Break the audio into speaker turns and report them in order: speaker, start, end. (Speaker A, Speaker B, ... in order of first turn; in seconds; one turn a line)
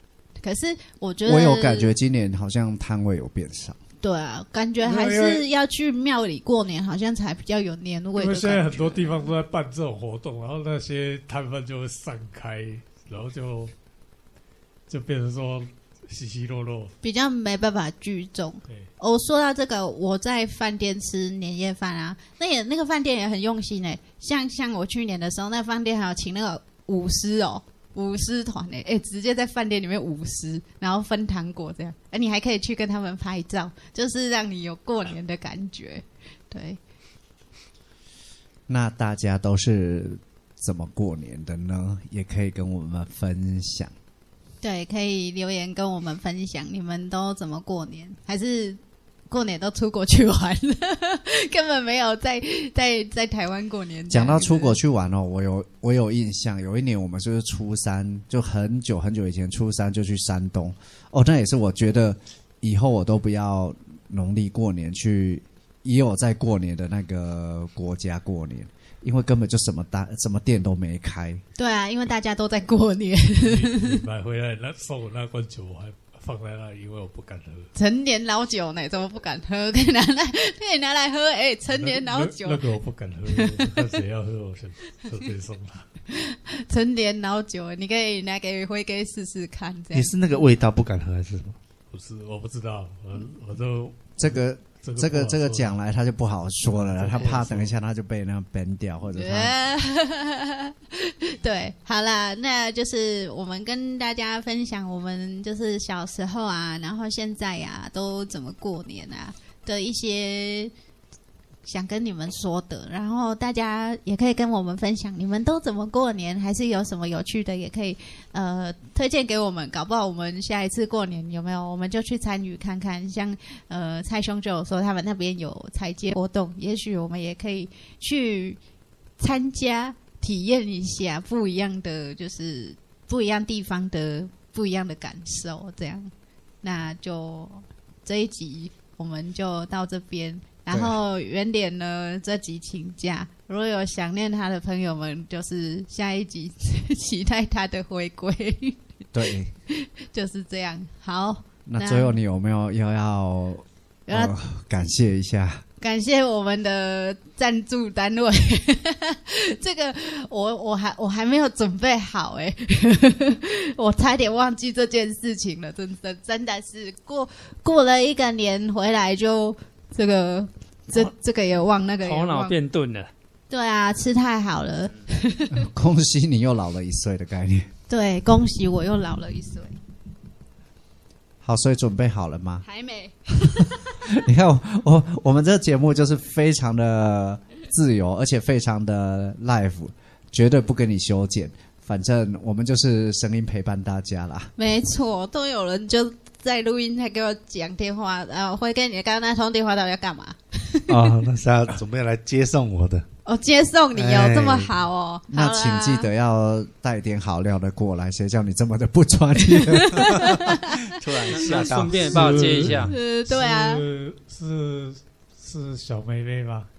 Speaker A: 0.4-1.9
Speaker B: 1.2-3.8
Speaker A: 4.0-9.3
Speaker C: 4.8-5.4
Speaker C: 8.2-13.7
Speaker C: 14.9-16.9
Speaker A: 17.0-36.8
Speaker B: 38.7-43.9
Speaker A: 44.6-54.8
Speaker B: 54.1-71.4
Speaker A: 71.6-74.0
Speaker C: 73.4-77.7
Speaker A: 77.7-82.6
Speaker C: 81.7-85.8
Speaker A: 83.3-83.7
Speaker A: 86.1-90.1
Speaker D: 89.9-91.6
Speaker C: 91.9-95.8
Speaker B: 94.2-99.5
Speaker C: 96.7-97.7
Speaker A: 99.1-110.7
Speaker A: 111.7-128.6
Speaker A: 129.2-136.1
Speaker A: 136.6-148.8
Speaker B: 140.7-140.9
Speaker B: 149.1-149.5
Speaker A: 149.7-152.2
Speaker B: 151.7-155.6
Speaker A: 154.1-154.3
Speaker A: 155.8-172.6
Speaker E: 172.0-173.1
Speaker A: 173.5-175.6
Speaker B: 175.5-177.7
Speaker A: 177.9-179.8
Speaker B: 181.4-182.6
Speaker A: 182.6-184.0
Speaker B: 184.0-194.5
Speaker A: 194.6-201.1
Speaker D: 200.9-203.1
Speaker A: 203.2-206.1
Speaker D: 203.9-204.7
Speaker B: 205.3-210.5
Speaker A: 209.5-210.7
Speaker D: 210.0-212.9
Speaker E: 211.2-212.9
Speaker C: 211.9-216.7
Speaker A: 212.8-213.8